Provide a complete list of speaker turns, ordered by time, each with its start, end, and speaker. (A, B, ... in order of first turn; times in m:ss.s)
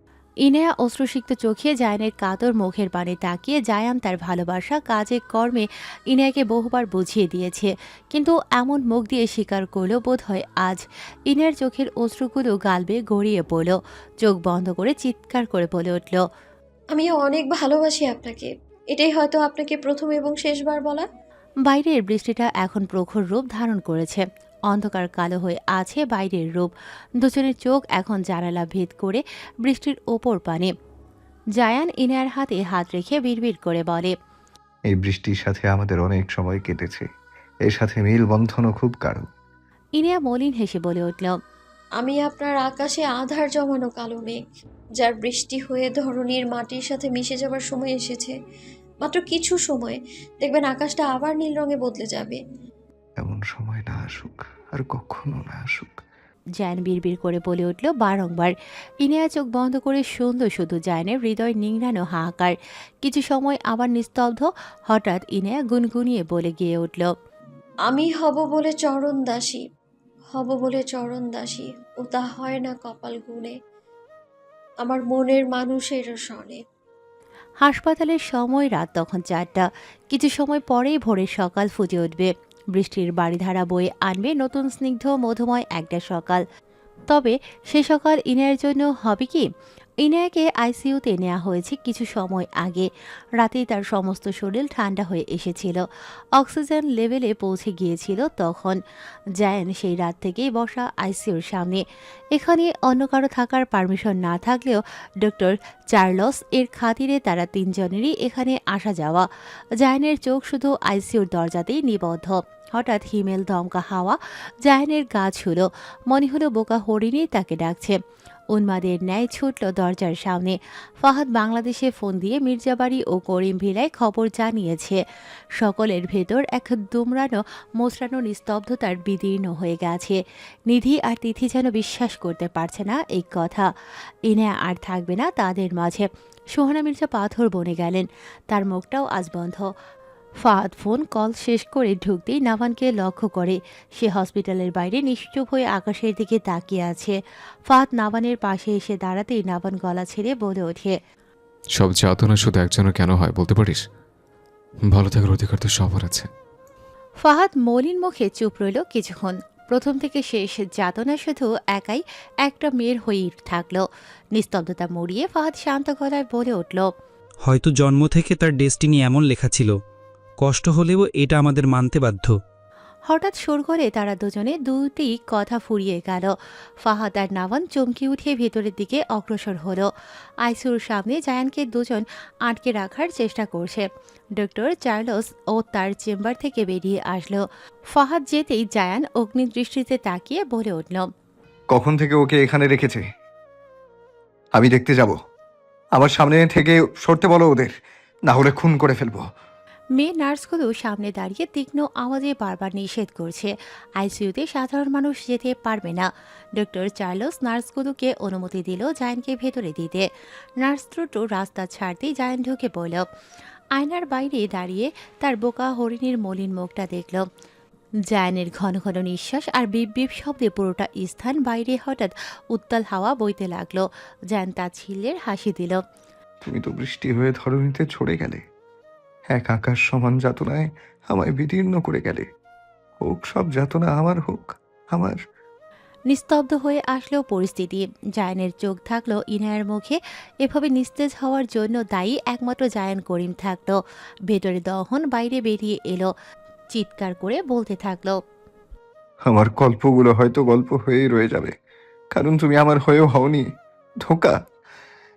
0:00.4-0:16.2 A
0:16.9-0:21.1 B
0:21.7-0:30.7 A
0:31.6-0:34.1 A
0:34.9-0:37.1 C
0:37.7-0:39.3 C
0:40.0-0:41.3 A
0:42.0-0:44.4 B
0:45.0-0:48.3 B
0:49.0-0:52.4 B
0:53.2-0:56.0 C
0:56.6-1:07.1 A
1:07.9-1:09.6 B
1:10.3-1:13.6 B
1:14.8-1:16.6 B
1:17.6-1:26.4 A
1:27.1-1:29.4 A
1:30.0-1:35.8 A
1:36.4-1:38.8 A
1:39.4-1:41.8 A
1:42.3-1:49.3 A
1:49.8-1:58.0 A
1:58.5-2:05.0 A
2:05.6-2:10.2 A
2:10.7-2:13.7 A
2:14.3-2:19.7 A
2:20.4-2:27.2 A
2:27.7-2:31.0 A
2:31.8-2:33.8 D
2:34.9-2:36.3 D
2:37.2-2:43.8 A
2:44.4-2:46.9 A
2:47.4-2:49.8 E
2:50.4-2:52.4 E
2:53.1-2:56.3 A
2:56.8-2:59.9 A
3:00.4-3:11.1 A
3:11.7-3:13.0 C
3:14.5-3:15.2 C
3:15.9-3:17.7 C
3:18.3-3:19.2 C
3:20.0-3:30.0 A
3:30.6-3:33.0 A
3:33.8-3:37.2 A
3:38.1-3:45.8 A
3:46.4-3:48.4 C
3:49.3-3:52.3 C
3:53.0-3:55.2 C
3:56.1-4:03.8 A
4:04.3-4:06.1 A
4:06.7-4:08.2 A
4:09.3-4:11.5 C
4:12.1-4:13.5 C
4:14.0-4:14.4 C